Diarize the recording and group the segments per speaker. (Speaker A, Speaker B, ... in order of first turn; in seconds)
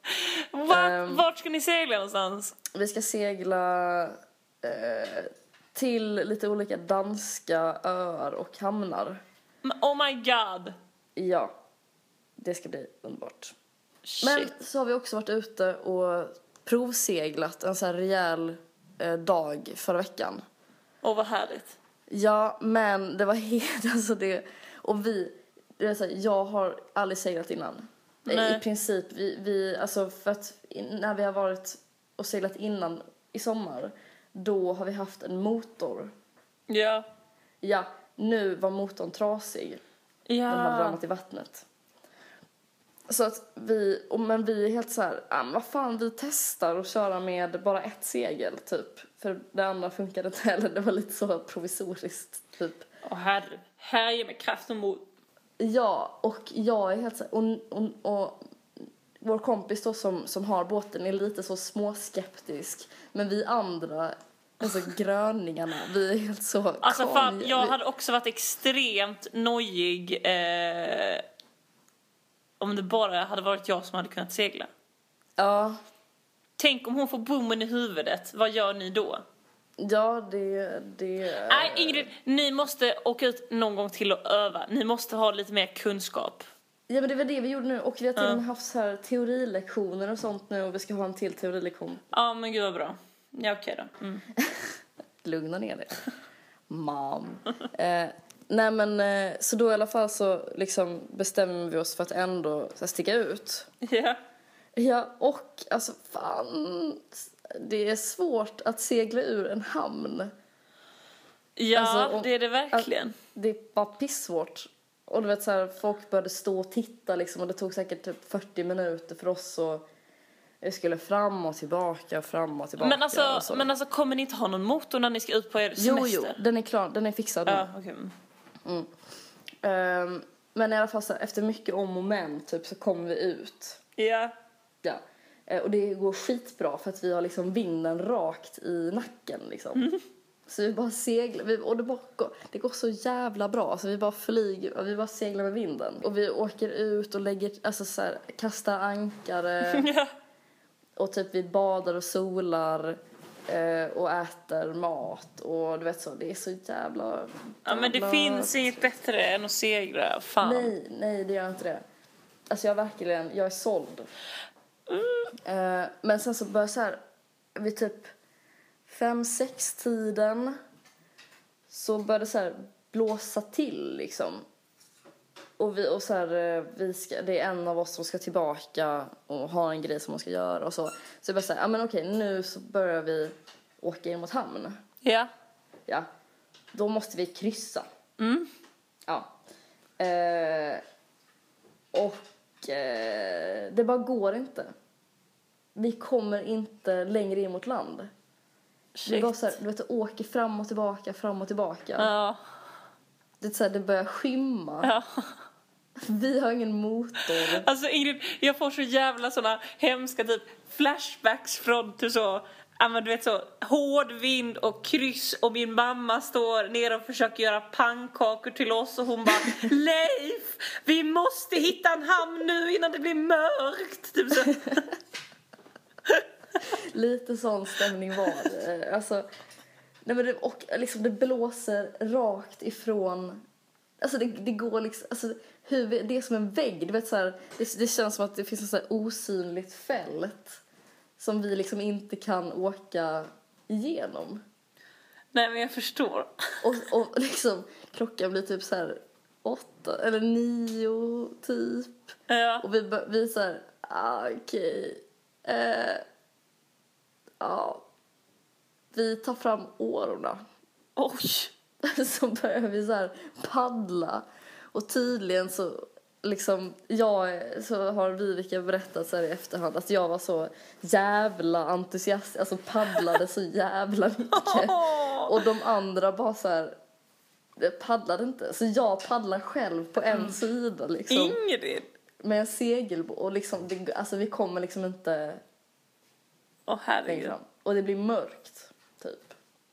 Speaker A: 0.2-2.5, 9.6-10.8, 14.1-14.5, 21.0-21.8, 28.2-28.6, 36.7-37.0, 40.3-41.0, 53.0-55.0, 66.8-71.2, 72.6-74.7, 76.6-79.2, 81.5-86.5, 88.2-88.4, 92.1-94.2, 103.8-104.2, 111.6-113.2, 122.8-126.4, 127.5-128.1, 134.0-134.3, 139.8-140.0, 149.6-150.1, 157.7-160.7, 164.9-165.3, 185.0-185.3, 188.2-188.5, 198.9-199.5, 202.0-202.4, 204.8-205.3, 207.5-224.8, 245.3-246.3, 252.3-252.7, 261.0-261.5, 274.3-275.4, 280.1-280.3, 281.1-281.9, 286.7-287.3
Speaker B: 0.7-1.2, 2.7-9.2, 11.2-11.5, 12.4-13.5, 14.2-20.4, 22.1-36.1, 37.6-39.8, 40.5-41.6, 43.1-52.8, 55.6-67.8, 75.4-75.8, 79.8-82.1, 86.9-92.0, 94.4-94.7, 95.2-96.0, 96.7-103.7, 104.8-110.3, 111.7-119.9, 120.6-123.7, 125.8-127.7, 128.6-128.9, 129.6-133.8, 134.8-139.9, 140.5-149.8, 150.9-158.8, 160.4-161.8, 162.5-164.1, 165.4-167.0, 167.6-168.1, 168.9-170.6, 171.7-174.4, 175.6-184.8, 186.7-187.8, 189.1-189.3, 190.0-190.8, 191.9-194.7, 195.8-198.1, 199.1-202.1, 203.4-204.9, 206.0-207.7, 226.6-229.2, 230.0-233.4, 234.0-240.6, 241.2-244.4, 246.6-256.0, 257.4-257.8, 258.9-260.4, 261.8-276.8, 277.6-281.4, 282.2-285.4, 287.1-289.4